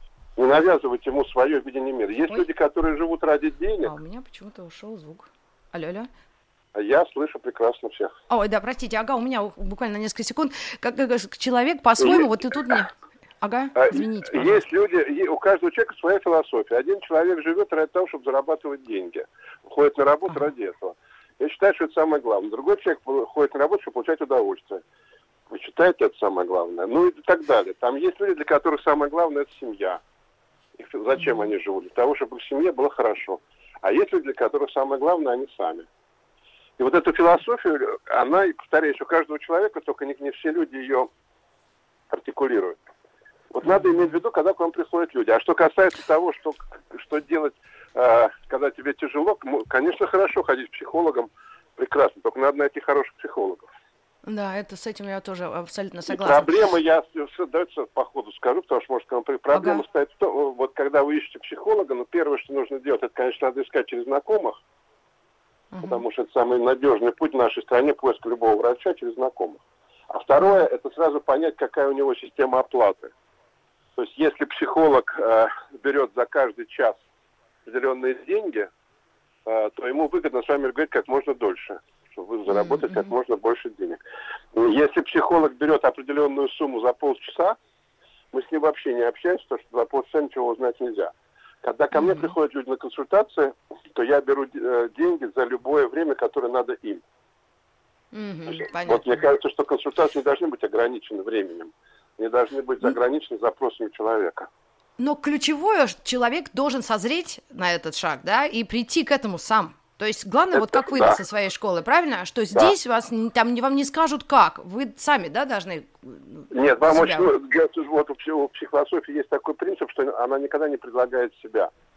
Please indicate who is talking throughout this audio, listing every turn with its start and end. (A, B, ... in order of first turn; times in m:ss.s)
0:00.4-0:03.9 A
0:03.8-0:06.1 B
0:06.8-0:08.1 A
0:08.3-0:14.6 B
0:12.0-0:12.3 A
0:13.8-0:24.8 A
0:25.5-0:30.0 A
0:30.8-0:35.9 A
0:31.2-0:31.5 B
0:36.8-0:41.1 A
0:42.1-0:42.8 A
0:43.5-0:53.7 A
0:43.6-0:44.1 B
0:54.2-0:56.6 B
0:56.1-1:04.6 A
0:59.5-0:59.8 B
1:05.7-1:06.0 B
1:05.8-1:13.1 A
1:10.4-1:10.6 B
1:14.0-1:17.0 A
1:17.6-1:18.7 A
1:19.5-1:24.0 A
1:22.5-1:23.1 B
1:24.6-1:27.6 A
1:28.3-1:31.1 A
1:31.6-1:37.0 A
1:31.9-1:32.3 B
1:38.1-1:39.1 B
1:38.5-1:44.5 A
1:45.0-1:57.3 B
1:50.5-1:51.2 A
1:56.5-2:01.7 A